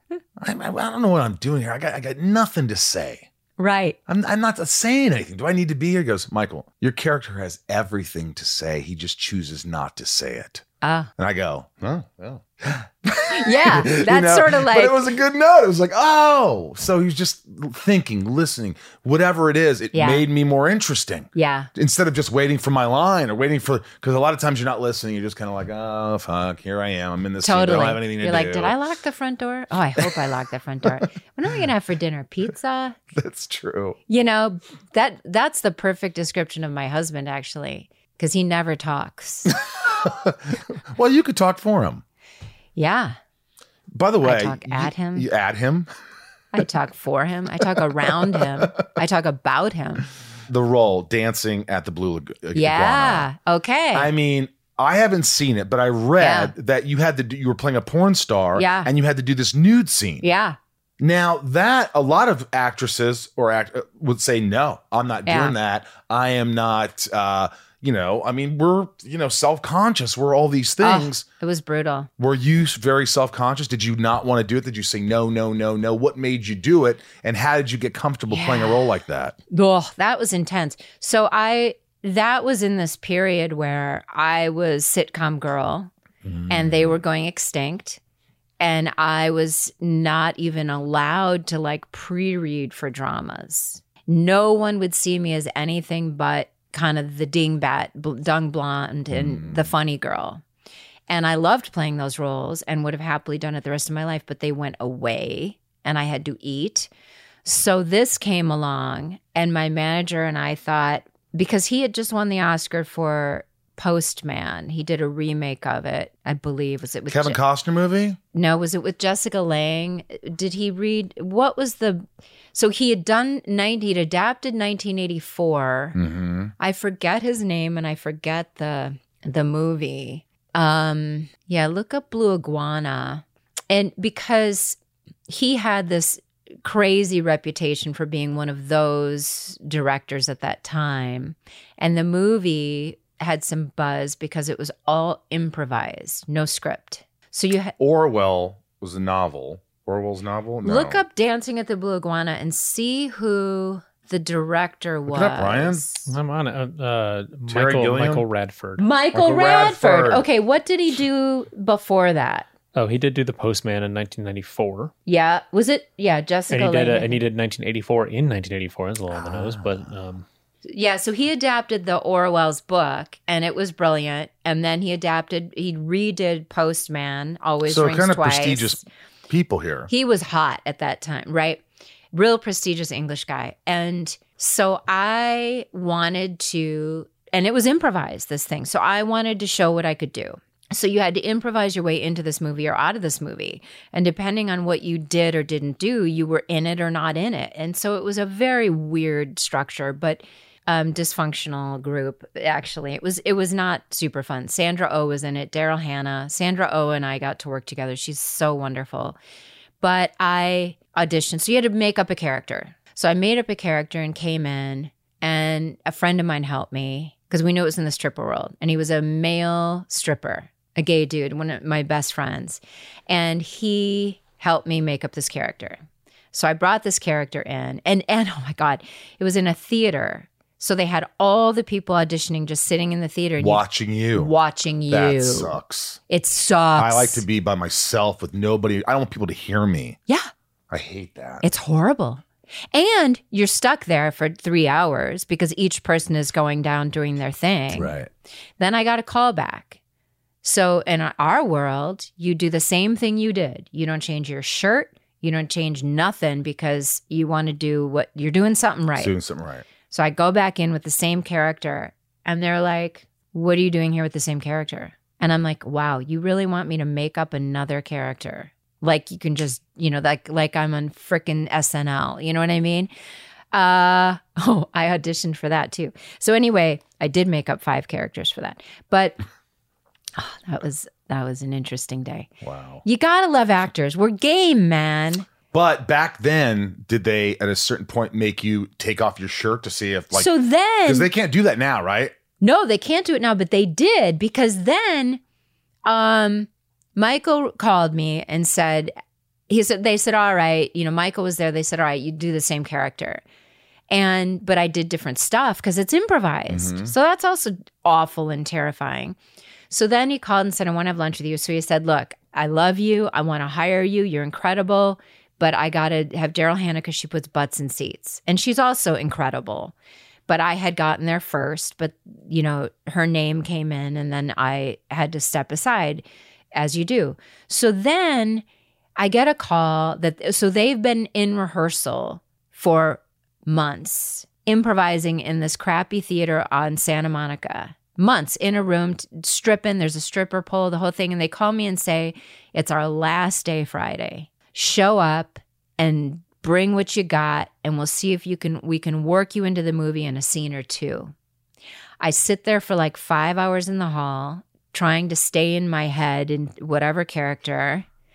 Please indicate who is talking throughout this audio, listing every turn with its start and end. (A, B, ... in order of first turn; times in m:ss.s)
0:00.4-0:03.3 A
0:03.6-0:04.0 B
0:04.1-0:10.6 A
0:10.8-0:11.1 B
0:11.2-0:28.8 A
0:13.4-0:15.1 B
0:19.9-0:20.2 B
0:21.4-0:21.7 B
0:27.4-0:33.0 B
0:33.1-0:34.0 A
0:34.1-0:39.6 B
0:39.8-0:42.0 A
0:42.8-0:43.2 B
0:43.9-0:45.9 A
0:44.2-0:45.3 B
0:46.5-0:50.1 B
0:50.5-0:53.3 A
0:52.6-0:54.1 B
0:53.9-1:00.3 A
0:56.2-0:56.5 B
0:58.6-0:58.9 B
1:00.2-1:00.6 B
1:01.0-1:11.2 A
1:05.3-1:05.6 B
1:10.8-1:12.1 B
1:12.2-1:19.4 A
1:18.3-1:18.9 B
1:19.5-1:25.9 B
1:26.2-1:27.0 A
1:26.5-1:28.0 B
1:28.6-1:40.4 B
1:39.1-1:39.7 A
1:41.1-1:46.9 B
1:47.4-1:57.4 B
1:57.1-1:58.2 A
1:58.3-2:06.0 B
2:06.0-2:06.5 A
2:06.6-2:27.7 B
2:27.8-2:31.0 A
2:30.6-2:36.1 B
2:35.1-2:35.9 A
2:36.1-2:38.9 C
2:37.5-2:38.3 A
2:38.8-2:42.5 B
2:39.1-2:40.3 A
2:42.7-2:44.9 C
2:45.1-2:47.2 B
2:46.5-2:50.2 C
2:49.1-2:49.8 A
2:50.7-2:58.8 B
2:57.6-2:59.9 A
2:59.9-3:29.2 B
3:29.8-3:53.6 B
3:53.4-3:54.3 A
3:54.1-3:55.5 B
3:54.9-3:56.0 A
3:56.1-3:57.2 B
3:56.8-4:00.0 A
4:00.7-4:01.4 A
4:01.4-4:08.0 B
4:07.7-4:08.1 A
4:08.6-4:09.8 B
4:10.4-4:19.1 B
4:19.0-4:19.6 A
4:19.9-4:32.9 B
4:33.5-4:39.2 B
4:40.2-4:42.3 B
4:42.4-4:42.8 A
4:42.8-4:45.3 B
4:45.5-4:50.3 A
4:50.1-4:51.1 B
4:50.8-4:52.1 A
4:52.4-4:55.2 B
4:55.9-4:58.9 B
4:59.5-5:03.2 B
5:03.9-5:09.2 B
5:06.5-5:06.9 A
5:09.7-5:19.7 B
5:20.3-5:28.4 B
5:29.0-5:51.1 B
5:52.0-5:57.9 B